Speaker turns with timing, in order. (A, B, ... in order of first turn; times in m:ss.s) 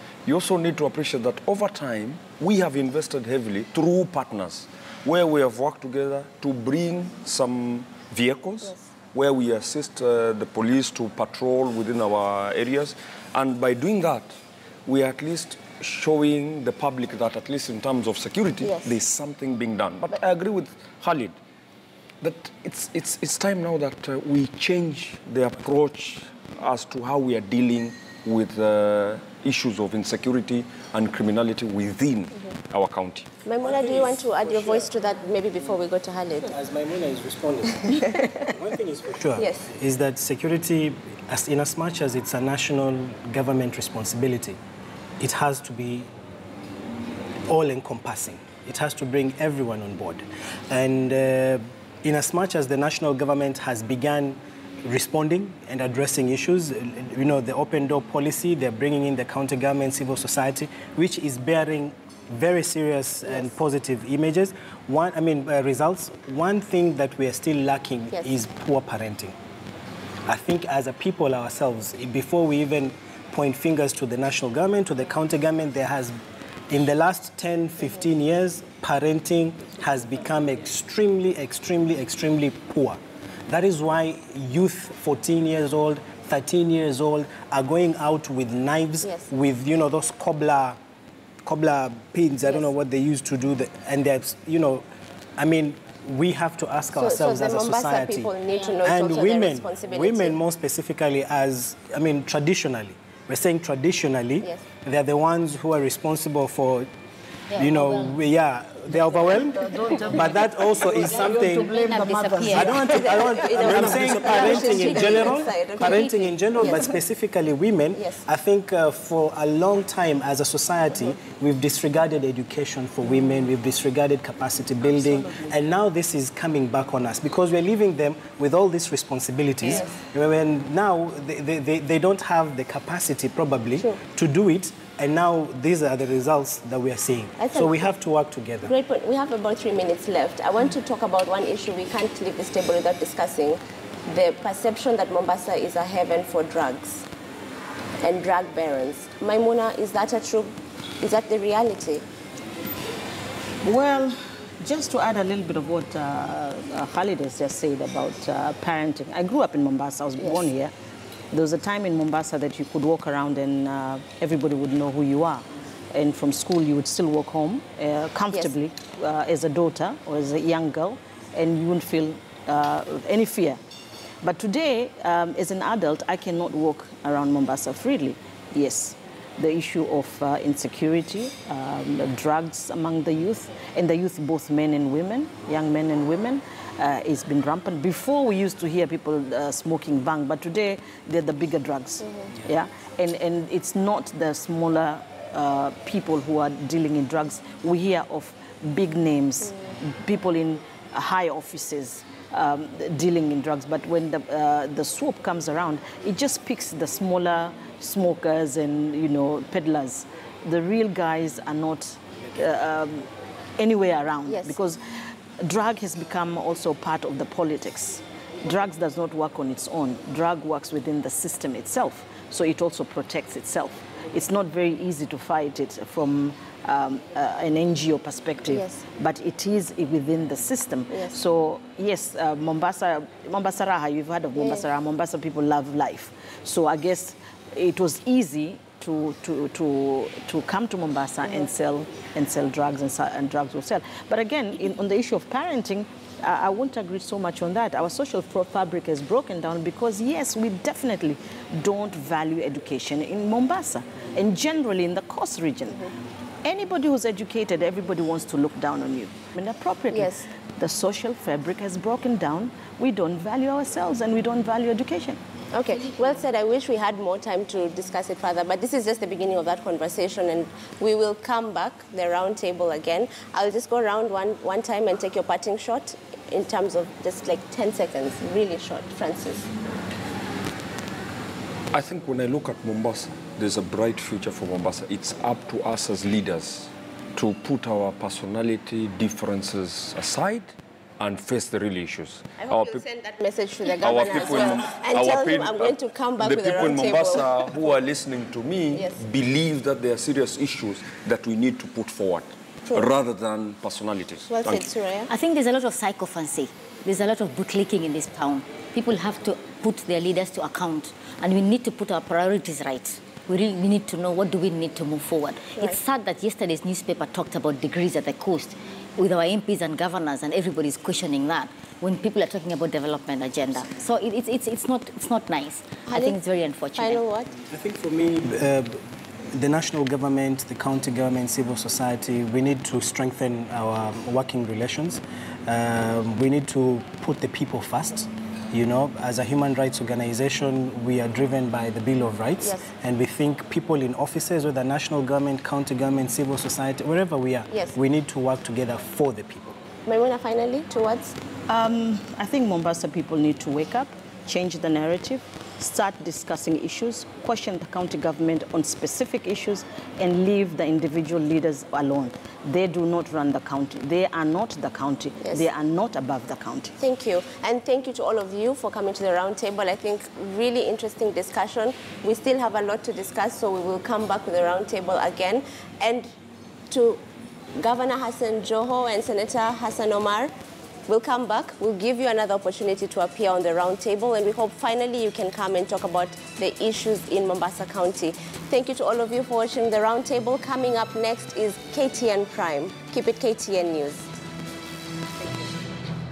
0:00.2-0:14.3 A
0:14.9-0:21.4 A
0:18.6-0:19.0 B
0:22.2-0:33.3 A
0:33.4-0:36.5 B
0:33.6-0:34.8 C
0:36.4-0:44.6 C
0:38.0-0:38.3 B
0:39.4-0:39.7 B
0:45.2-0:46.1 C
0:47.5-1:09.4 C
1:10.3-1:16.2 C
1:16.7-1:30.8 C
1:29.0-1:29.3 B
1:31.4-1:34.8 C
1:35.4-1:46.9 C
1:37.0-1:40.4 B
1:47.5-1:48.1 D
1:47.6-1:51.7 C
1:49.7-1:52.9 E
1:51.6-1:52.9 D
1:52.4-2:18.7 C
1:52.6-1:57.0 B
1:54.3-1:54.9 D
1:57.9-1:58.2 B
2:09.6-2:09.9 B
2:17.4-2:17.8 B
2:18.6-2:27.0 B
2:28.0-2:32.0 B
2:33.6-2:40.7 E
2:40.2-2:40.5 B
2:41.3-2:53.6 E
2:48.3-2:48.6 B
2:54.2-3:33.1 E
3:33.6-3:34.8 E
3:34.3-3:34.6 B
3:35.4-4:15.9 E
3:48.5-3:48.8 B
3:50.9-3:51.2 B
3:54.4-3:54.7 B
4:16.4-4:25.2 E
4:19.9-4:20.3 B
4:25.5-4:39.5 B
4:41.7-4:52.8 A
4:52.4-4:57.5 B
4:53.8-5:04.7 A
4:58.7-4:59.0 B
5:04.3-5:05.1 B
5:05.1-5:27.0 D
5:25.9-5:26.2 B
5:26.8-5:27.3 B
5:27.5-5:28.8 C
5:29.3-5:49.6 C
5:42.4-5:42.7 B
5:49.9-5:51.2 B
5:51.5-6:06.7 E
6:05.2-6:05.5 B
6:06.8-6:16.1 B
6:16.7-6:17.0 B
6:17.6-6:20.3 B
6:20.9-6:34.1 B